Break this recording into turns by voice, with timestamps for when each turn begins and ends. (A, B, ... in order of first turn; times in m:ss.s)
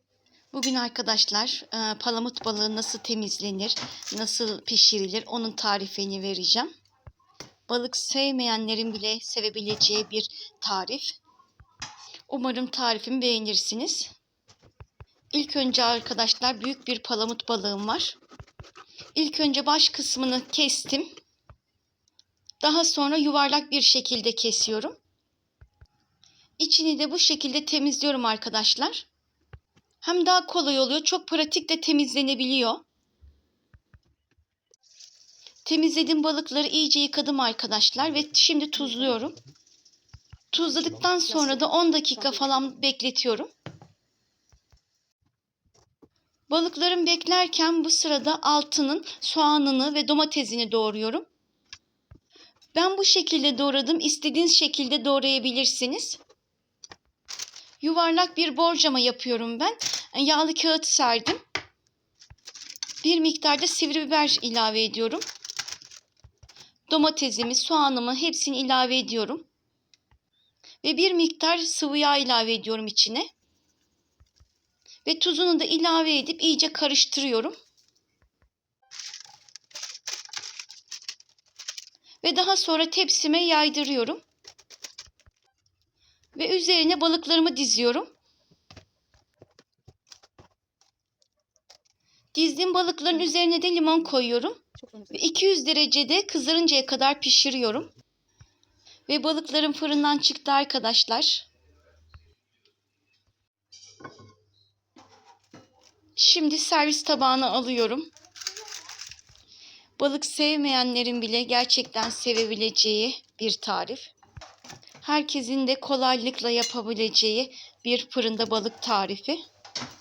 0:00.5-0:06.7 A
0:07.7-0:11.2 A
0:12.3-0:14.1 A
0:15.3-0:18.2 A
0:19.2-0:21.1 A
0:22.6-0:25.0 A
0:26.6-0:29.1 A
0:30.0-0:32.8 A
0:35.6-0:39.4 A
0:40.5-0:43.5 A
0:46.5-0:51.2 A
0:52.8-0:56.2 A
0:57.8-1:01.4 A
1:03.0-1:05.2 A
1:06.9-1:09.5 A
1:10.8-1:13.3 A
1:15.0-1:17.6 A
1:22.2-1:24.2 A
1:26.4-1:28.1 A
1:32.3-1:37.9 A
1:39.1-1:41.4 A
1:46.2-1:48.1 A
1:50.0-1:54.1 A
1:55.0-1:59.4 A